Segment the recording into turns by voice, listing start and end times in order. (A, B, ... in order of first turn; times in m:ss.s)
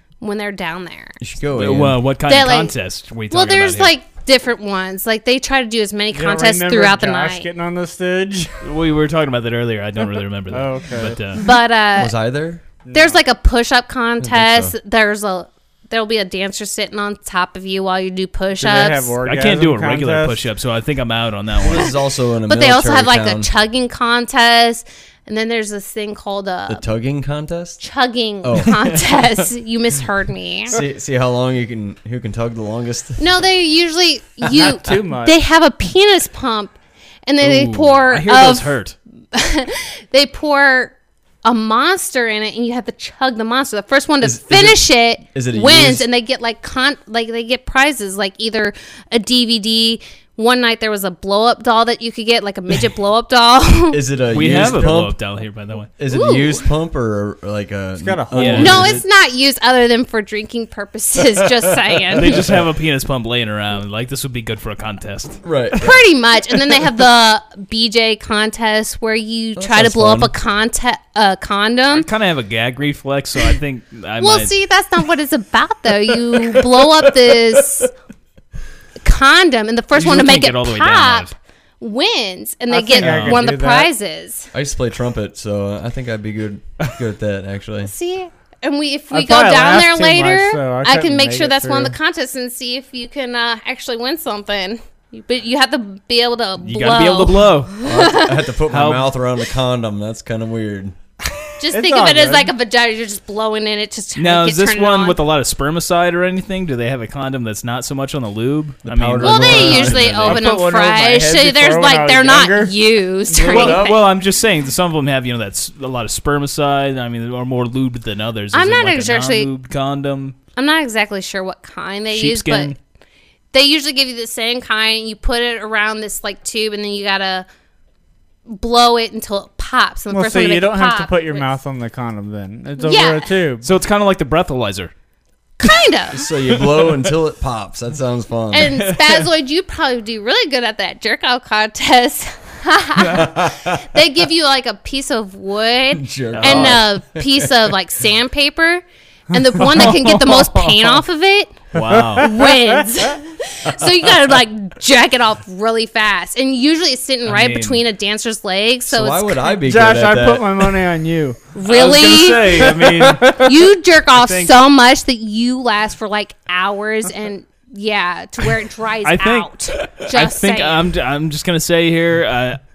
0:00.2-0:01.2 A
0:01.2-0:02.0 B
0:01.6-0:03.9 C
0:02.3-0:02.7 A
0:03.3-0:07.5 A
0:06.1-0:08.5 D
0:08.6-0:11.4 C
0:10.0-0:11.2 D
0:11.4-0:12.1 A
0:11.9-0:12.6 B
0:12.8-0:13.2 D
0:12.9-0:19.1 A
0:14.2-0:14.7 B
0:18.6-0:20.4 D
0:19.2-0:21.9 C
0:21.6-0:23.5 B
0:22.4-0:26.9 A
0:26.7-0:27.8 B
0:27.8-0:30.8 A
0:28.4-0:29.0 B
0:30.7-0:33.2 B
0:33.2-0:36.7 A
0:34.5-0:35.4 D
0:37.2-0:38.8 A
0:37.4-0:39.0 C
0:39.3-0:54.0 A
0:44.2-0:46.0 B
0:53.9-0:55.2 B
0:54.3-0:55.9 C
0:56.0-0:59.0 B
0:56.1-0:56.6 A
0:58.0-0:59.0 D
0:58.3-0:59.0 C
0:58.6-1:02.4 A
1:02.1-1:05.4 C
1:02.1-1:02.6 B
1:05.4-1:06.0 B
1:05.8-1:12.1 A
1:09.6-1:10.3 B
1:11.9-1:14.5 C
1:14.2-1:17.9 A
1:19.0-1:24.5 A
1:19.9-1:21.3 C
1:22.7-1:23.9 D
1:23.0-1:23.4 C
1:24.5-1:27.9 B
1:27.8-1:38.4 A
1:29.1-1:31.9 D
1:36.6-1:37.7 C
1:37.8-1:41.0 B
1:38.7-1:39.1 C
1:41.6-1:45.2 A
1:41.7-1:42.5 D
1:44.2-1:50.5 C
1:48.8-1:50.3 B
1:49.2-1:54.0 A
1:50.2-1:53.8 D
1:53.4-1:53.9 B
1:53.4-2:00.4 C
1:58.5-1:59.5 A
2:00.6-2:02.8 A
2:02.1-2:02.8 C
2:03.5-2:07.5 A
2:08.5-2:11.5 A
2:10.1-2:13.7 D
2:12.8-2:13.3 A
2:13.6-2:14.9 C
2:15.6-2:16.2 A
2:16.1-2:18.9 B
2:18.5-2:31.6 A
2:23.0-2:23.9 B
2:25.9-2:27.7 B
2:26.3-2:26.8 C
2:29.8-2:30.3 C
2:31.7-2:32.3 C
2:31.7-2:33.1 D
2:32.2-2:39.5 A
2:37.2-2:37.8 C
2:38.9-2:40.8 B
2:39.6-2:41.5 D
2:41.5-2:50.8 A
2:41.6-2:43.4 C
2:42.5-2:43.4 D
2:44.1-2:44.6 C
2:49.0-2:52.6 C